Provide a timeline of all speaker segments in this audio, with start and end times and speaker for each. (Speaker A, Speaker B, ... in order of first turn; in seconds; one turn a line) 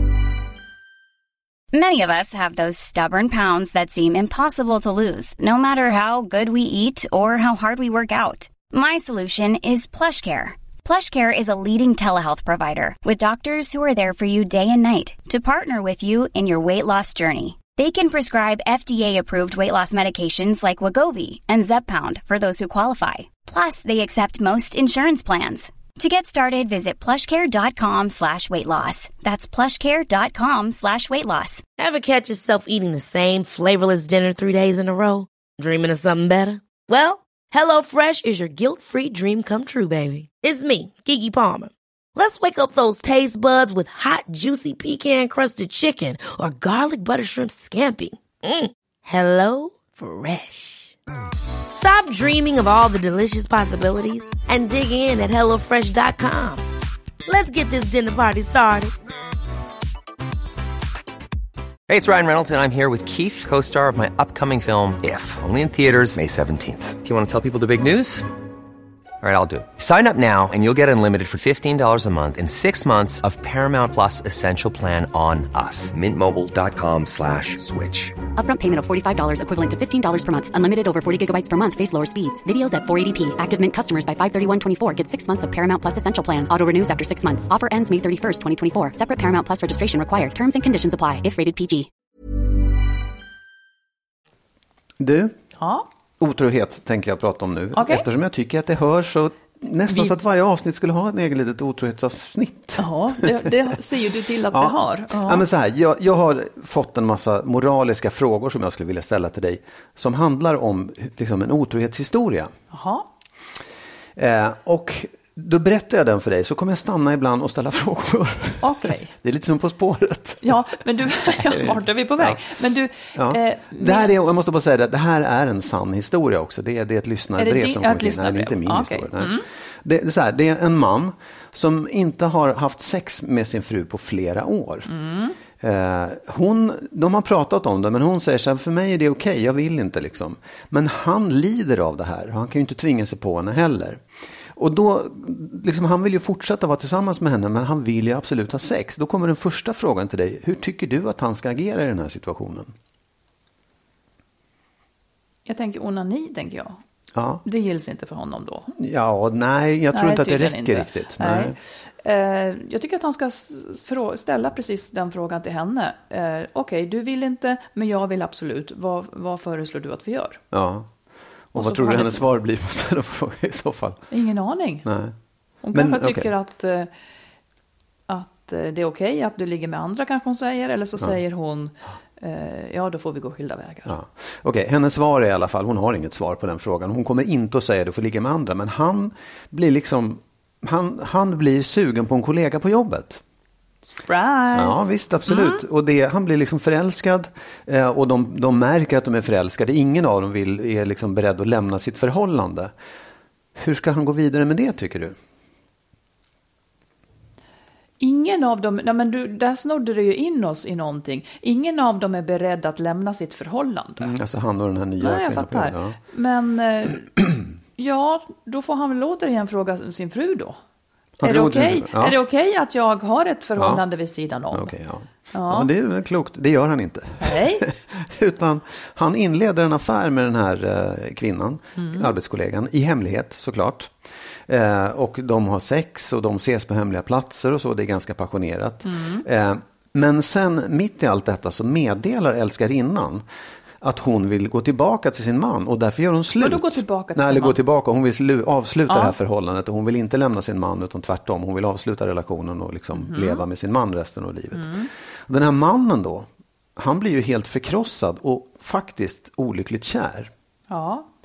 Speaker A: 1.7-31.6
Speaker B: 31.8-51.0
Speaker B: 51.7-56.6
Speaker B: 57.3-58.9
Speaker C: 61.9-68.3
Speaker C: 69.2-78.2
Speaker D: 78.3-91.9
Speaker E: 95.0-95.3
Speaker F: 95.6-95.8
Speaker E: 96.2-103.5
Speaker F: 97.7-98.0
Speaker F: 99.9-100.2
Speaker F: 102.8-105.4
Speaker E: 104.5-112.5
Speaker F: 112.7-113.1
Speaker E: 114.2-122.4
Speaker F: 118.6-119.1
Speaker F: 120.4-124.1
Speaker E: 123.1-134.9
Speaker F: 127.4-129.4
Speaker F: 134.9-135.3
Speaker E: 135.6-152.7
Speaker F: 155.4-156.8
Speaker E: 157.1-157.4
Speaker F: 157.4-158.7
Speaker E: 158.8-161.6
Speaker F: 159.9-170.4
Speaker E: 170.5-170.9
Speaker E: 171.5-174.1
Speaker F: 171.6-172.2
Speaker F: 174.1-174.9
Speaker E: 174.8-175.1
Speaker F: 175.6-176.9
Speaker E: 175.7-176.3
Speaker F: 178.1-183.9
Speaker E: 183.8-193.2
Speaker F: 193.9-195.6
Speaker E: 194.5-202.7
Speaker E: 203.6-205.2
Speaker F: 208.0-214.1
Speaker E: 214.0-216.0
Speaker F: 215.0-217.1
Speaker F: 217.8-220.6
Speaker E: 221.2-222.2
Speaker F: 221.2-224.7
Speaker E: 223.6-223.8
Speaker E: 224.5-243.2
Speaker F: 225.3-225.7
Speaker F: 227.2-227.7
Speaker F: 231.8-232.1
Speaker F: 238.8-239.2
Speaker E: 243.8-260.3
Speaker F: 246.4-247.6
Speaker F: 248.9-249.2
Speaker F: 252.9-253.4
Speaker F: 254.5-254.9
Speaker F: 260.7-261.1